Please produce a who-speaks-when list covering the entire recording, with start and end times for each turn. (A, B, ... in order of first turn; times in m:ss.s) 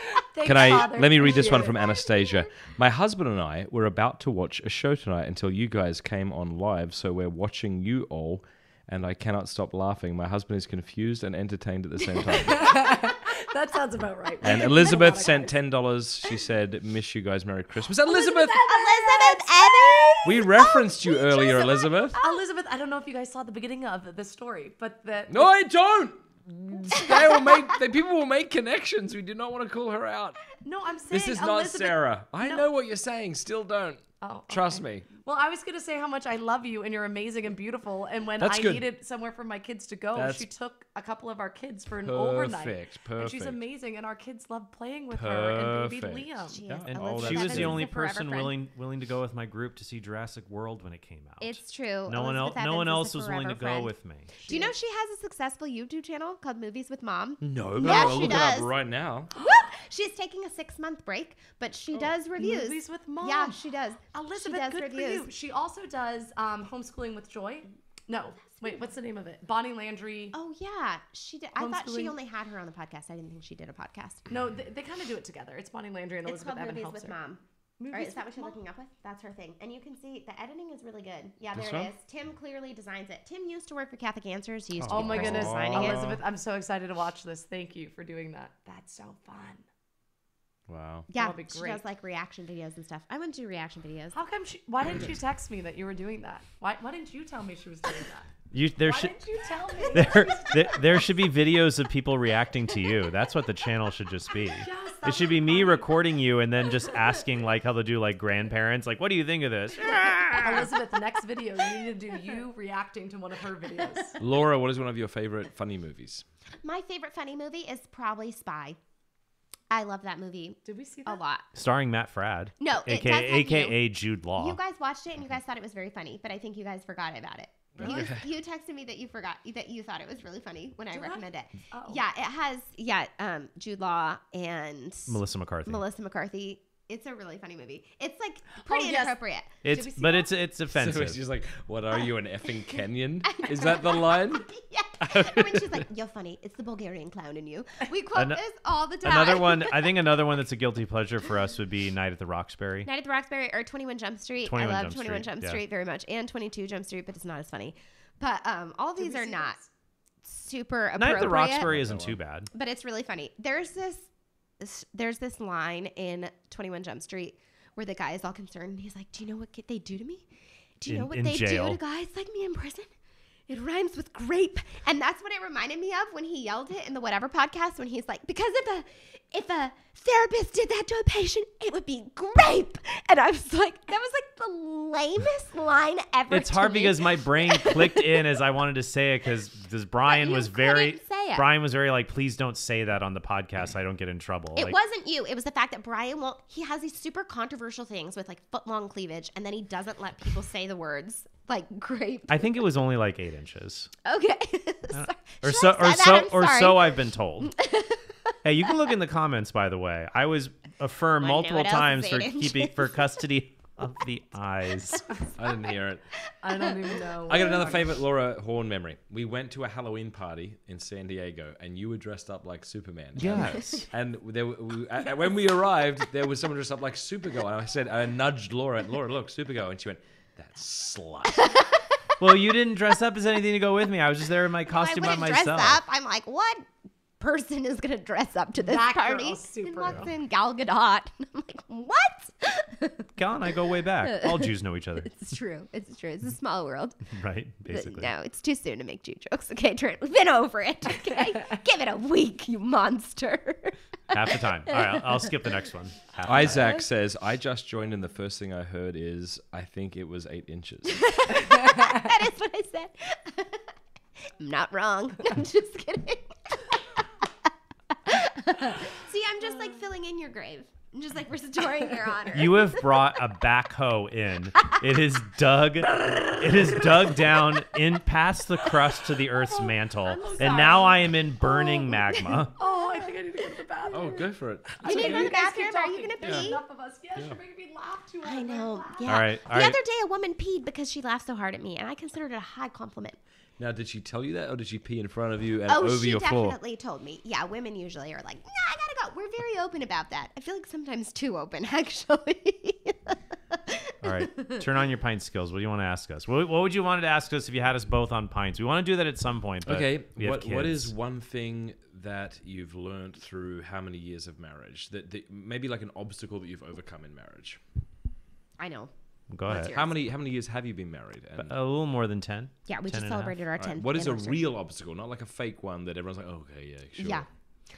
0:00.2-0:02.2 A
0:00.4-0:12.8 B
0:01.3-0:02.3 C
0:12.3-0:15.6 A
0:14.4-0:18.6 B
0:18.1-0:20.3 A
0:18.5-0:22.4 C
0:20.2-0:22.2 B
0:22.2-0:25.5 A
0:25.3-0:30.5 B
0:27.0-0:27.6 C
0:30.6-0:32.6 A
0:31.1-0:35.1 B
0:34.2-0:46.7 A
0:38.4-0:38.8 B
0:40.2-0:40.5 B
0:42.0-0:43.6 B
0:45.1-0:47.9 B
0:46.5-0:48.5 C
0:46.9-0:54.3 D
0:51.4-0:53.9 C
0:54.4-0:54.7 A
0:54.5-0:58.7 C
0:57.4-0:59.3 B
0:57.8-0:58.4 A
0:59.4-1:05.3 C
1:01.9-1:03.6 A
1:04.1-1:10.4 A
1:08.5-1:08.8 C
1:10.3-1:14.3 C
1:11.6-1:12.1 A
1:14.3-1:17.1 A
1:16.2-1:26.0 C
1:17.8-1:18.6 A
1:21.5-1:21.9 B
1:24.8-1:26.2 B
1:24.9-1:29.6 A
1:30.7-1:31.1 B
1:31.1-1:34.2 C
1:31.1-1:31.8 A
1:34.1-1:41.1 A
1:38.5-1:39.2 D
1:39.9-1:50.7 D
1:44.6-1:45.9 A
1:50.4-1:54.2 A
1:54.2-1:56.2 B
1:56.6-1:58.8 C
1:59.7-2:01.5 C
2:00.6-2:01.2 A
2:01.6-2:04.6 D
2:02.6-2:03.8 C
2:04.4-2:19.5 C
2:07.8-2:08.3 B
2:10.9-2:12.0 A
2:15.1-2:15.8 D
2:18.7-2:20.3 A
2:19.6-2:21.2 D
2:20.7-2:25.8 B
2:23.3-2:29.9 C
2:28.2-2:28.4 D
2:29.0-2:32.9 D
2:32.8-2:39.6 C
2:34.4-2:35.6 D
2:39.0-2:39.7 A
2:40.2-2:41.7 C
2:41.0-2:42.5 D
2:41.1-2:42.2 B
2:42.5-2:50.3 C
2:50.8-2:52.9 C
2:50.9-2:51.8 D
2:53.5-3:08.4 C
3:06.3-3:14.8 D
3:10.1-3:11.5 C
3:14.6-3:22.5 C
3:22.3-3:23.9 D
3:24.0-3:28.3 C
3:24.9-3:27.6 D
3:28.4-3:35.0 D
3:31.2-3:33.0 C
3:35.4-3:36.1 B
3:36.4-3:37.9 A
3:36.5-3:37.8 C
3:37.3-3:51.5 B
3:43.2-3:43.7 D
3:51.4-3:51.8 C
3:52.2-3:55.8 D
3:54.7-4:03.1 C
3:58.6-4:00.1 A
4:03.2-4:05.2 D
4:04.0-4:07.0 C
4:07.1-4:08.1 D
4:07.7-4:13.8 C
4:14.1-4:16.7 D
4:14.7-4:15.3 C
4:16.3-4:21.1 B
4:20.9-4:23.7 C
4:24.3-4:27.5 C
4:28.0-4:33.0 C
4:32.3-4:42.5 D
4:39.4-4:41.1 A
4:40.4-4:40.8 C
4:41.4-4:42.5 C
4:42.6-4:49.1 A
4:43.9-4:45.3 B
4:44.8-4:46.6 C
4:46.2-4:46.5 B
4:48.2-4:53.2 C
4:49.1-4:49.8 D
4:53.6-4:56.6 B
4:55.7-5:04.6 C
5:04.0-5:10.9 D
5:09.7-5:17.6 B
5:18.6-5:18.9 C
5:19.3-5:19.8 D
5:19.5-5:20.0 C
5:19.5-5:21.6 B
5:21.4-5:23.4 D
5:22.7-5:24.5 C
5:23.6-5:27.3 B
5:27.0-5:27.3 C